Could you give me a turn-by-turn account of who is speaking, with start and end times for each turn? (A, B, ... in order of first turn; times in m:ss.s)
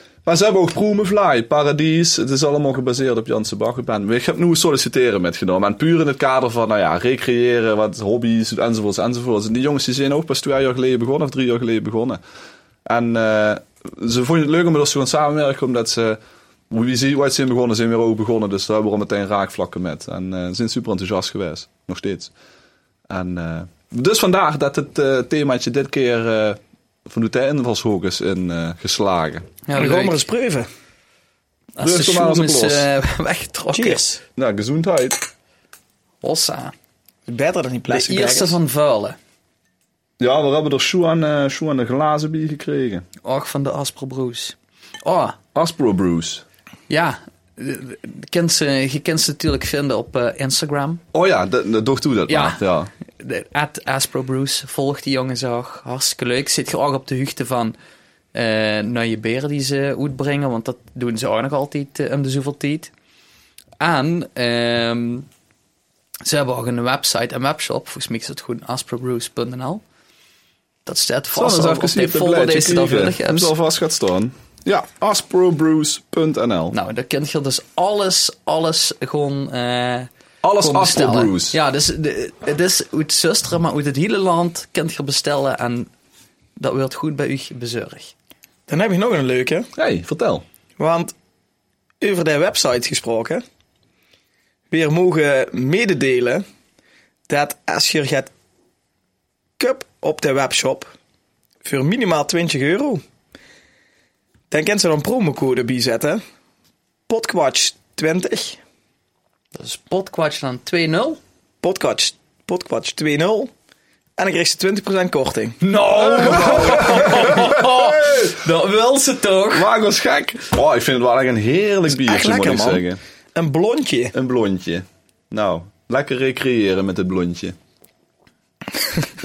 0:00.2-0:12.2 A
0:12.8-0:16.2 A
0:16.7-0:22.3 A
0:23.1-0:29.5 A
0:29.7-0:30.2 B
0:29.8-0:30.7 C
0:31.8-0:34.1 B
0:31.8-0:32.9 A
0:33.7-0:34.2 C
0:34.4-0:35.3 A
0:36.2-0:36.7 B
0:37.3-0:38.6 C
0:37.9-0:39.2 B
0:40.2-0:43.0 A
0:43.2-0:45.4 B
0:45.5-0:46.4 A
0:46.9-0:51.0 B
0:51.1-0:52.9 A
0:52.3-0:52.6 B
0:53.2-0:57.8 B
0:58.3-1:02.9 B
1:03.8-1:05.3 B
1:06.2-1:09.8 B
1:10.8-1:13.5 B
1:11.3-1:16.8 A
1:16.7-1:20.1 B
1:20.4-1:21.6 A
1:20.6-1:25.9 B
1:26.6-1:28.1 B
1:28.7-1:29.7 C
1:29.8-1:30.4 A
1:30.8-1:31.1 C
1:32.0-1:33.4 C
1:34.7-1:36.4 C
1:37.3-1:38.3 C
1:39.6-1:40.9 C
1:41.6-1:43.0 C
1:44.5-1:46.2 C
1:47.1-1:48.6 C
1:49.5-1:51.2 B
1:51.6-1:53.5 C
1:54.2-1:55.6 C
1:55.6-1:59.7 B
1:56.0-1:58.4 A
1:59.5-2:03.0 A
2:01.9-2:04.1 C
2:04.1-2:07.6 A